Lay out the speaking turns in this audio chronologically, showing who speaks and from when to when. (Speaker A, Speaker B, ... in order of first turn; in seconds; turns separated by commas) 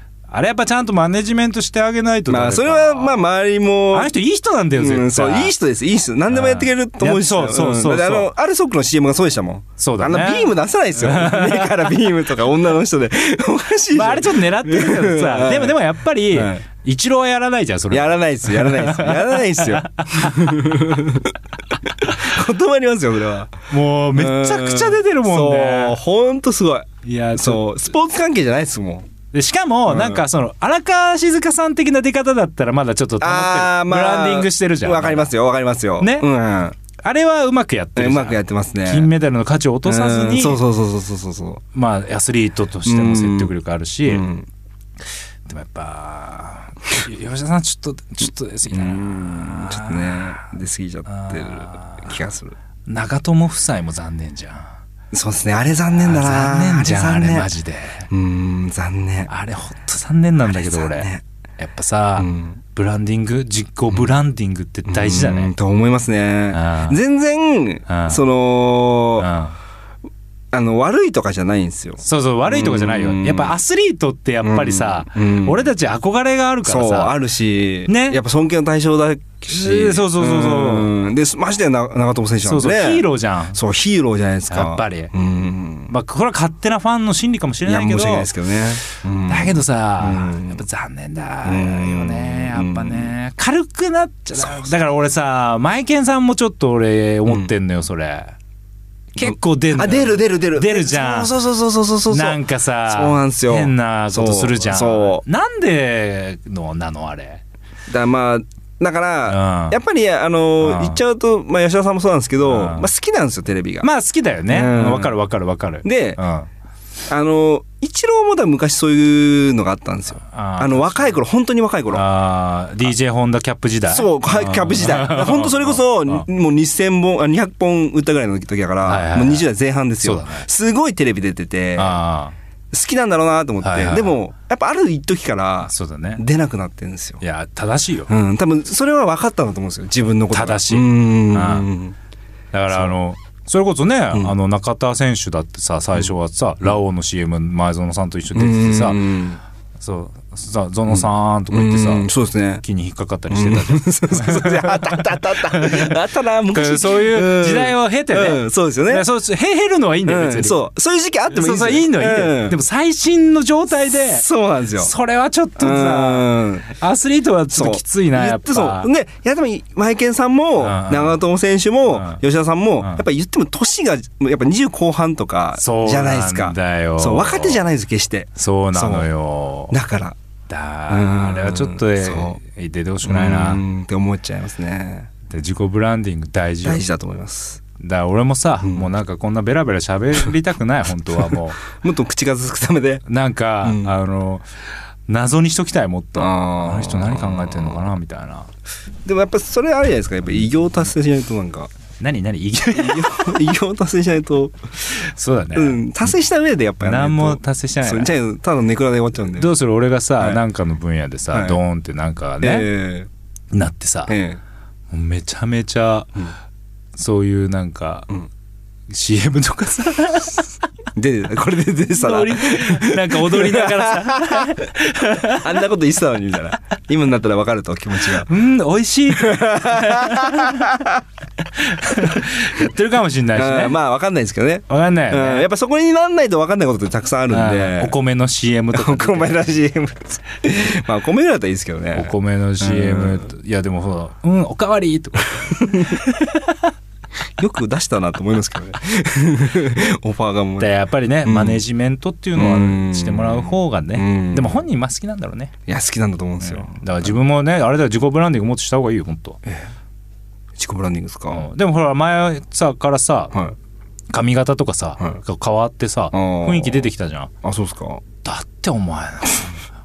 Speaker A: 0.3-3.2, Speaker B: 2.3-4.1, Speaker A: 3.9-5.5, Speaker B: 4.8-15.8, Speaker A: 6.3-8.3, Speaker A: 9.8-11.9, Speaker A: 13.9-20.7, Speaker B: 16.3-16.6, Speaker B: 17.9-21.4, Speaker B: 22.0-29.1, Speaker A: 23.7-26.0, Speaker A: 27.0-27.7, Speaker A: 29.3-35.3, Speaker B: 29.9-30.2, Speaker B: 33.2-36.8, Speaker A: 36.0-36.3, Speaker A: 37.0-40.6, Speaker B: 38.0-39.1, Speaker B: 39.8-41.6, Speaker A: 41.7-44.3, Speaker B: 42.8-43.5, Speaker B: 44.1-44.5, Speaker A: 45.5-50.5, Speaker B: 48.7-52.5, Speaker A: 51.1-52.2, Speaker A: 52.9-54.8, Speaker B: 55.1-57.5, Speaker A: 55.9-58.1, Speaker B: 58.1-59.3, Speaker A: 59.3-65.5, Speaker B: 60.4-61.2, Speaker B: 62.2-62.6, Speaker B: 64.8-69.3, Speaker A: 66.5-67.0, Speaker A: 67.9-68.2, Speaker A: 69.2-69.6, Speaker B: 70.5-73.6, Speaker A: 72.0-77.1, Speaker B: 74.4-75.7, Speaker B: 76.6-85.9, Speaker A: 77.9-78.2, Speaker A: 79.5-80.9, Speaker A: 82.4-83.6, Speaker A: 84.5-85.1, Speaker A: 85.9-88.3, Speaker B: 87.6-90.6, Speaker A: 88.9-98.3, Speaker B: 91.4-93.1, Speaker B: 94.4-94.7, Speaker A: 99.1-101.3, Speaker B: 99.2-105.2, Speaker A: 102.1-107.4, Speaker B: 107.9-113.9, Speaker A: 109.3-109.8, Speaker A: 110.6-111.0, Speaker A: 112.5-112.9, Speaker A: 113.8-116.5, Speaker B: 114.5-115.2, Speaker B: 115.8-116.2, Speaker B: 117.1-122.0, Speaker A: 120.2-121.2, Speaker A: 121.9-126.2, Speaker B: 123.9-132.0, Speaker A: 128.8-129.5, Speaker A: 130.0-130.5, Speaker A: 131.8-132.3, Speaker B: 132.7-137.2, Speaker A: 133.6-134.2, Speaker A: 135.7-136.2, Speaker A: 137.2-138.1, Speaker B: 138.1-141.9, Speaker A: 140.3-141.7, Speaker A: 142.5-149.1, Speaker B: 148.3-149.4, Speaker A: 149.8-152.1, Speaker B: 150.9-152.6, Speaker A: 152.6-156.0, Speaker B: 153.3-159.0, Speaker A: 156.5-160.6, Speaker B: 160.1-162.6, Speaker A: 161.3-164.2, Speaker B: 164.0-164.9, Speaker A: 164.8-168.9, Speaker B: 165.6-166.7, Speaker B: 167.5-179.1, Speaker A: 170.6-171.2, Speaker A: 171.9-172.2, Speaker A: 175.6-177.6, Speaker A: 178.4-179.7, Speaker B: 179.7-180.2, Speaker A: 180.5-183.6, Speaker B: 180.9-182.4, Speaker B: 183.0-185.1, Speaker A: 185.3-186.8, Speaker B: 186.6-187.6, Speaker A: 187.8-191.6, Speaker B: 191.3-193.0, Speaker A: 193.1-194.4, Speaker B: 193.6-193.9, Speaker A: 195.1-198.5, Speaker B: 196.2-197.8, Speaker B: 199.0-201.7, Speaker A: 202.0-203.4, Speaker B: 202.8-204.9, Speaker A: 204.9-205.8, Speaker B: 205.5-209.5, Speaker A: 206.8-208.1, Speaker A: 209.3-212.7, Speaker B: 211.3-211.6, Speaker B: 212.4-213.1, Speaker A: 213.5-214.2, Speaker B: 214.1-214.4, Speaker A: 214.9-216.3, Speaker A: 217.0-218.1, Speaker A: 218.9-220.5, Speaker B: 220.9-224.6, Speaker A: 222.0-225.6, Speaker B: 225.3-228.3, Speaker A: 228.1-230.8, Speaker B: 229.1-231.0, Speaker A: 231.4-233.8, Speaker B: 233.3-237.9, Speaker A: 234.7-235.5, Speaker A: 237.3-239.5, Speaker B: 238.7-243.3, Speaker A: 241.9-246.7, Speaker B: 245.3-246.0, Speaker B: 247.4-250.7, Speaker A: 250.6-255.5, Speaker B: 251.2-251.6, Speaker B: 252.3-254.6, Speaker B: 255.7-257.1, Speaker A: 256.4-259.4, Speaker B: 260.6-261.4, Speaker A: 261.3-263.4, Speaker A: 264.1-267.3, Speaker B: 266.1-266.9, Speaker B: 267.4-268.0, Speaker A: 268.2-269.5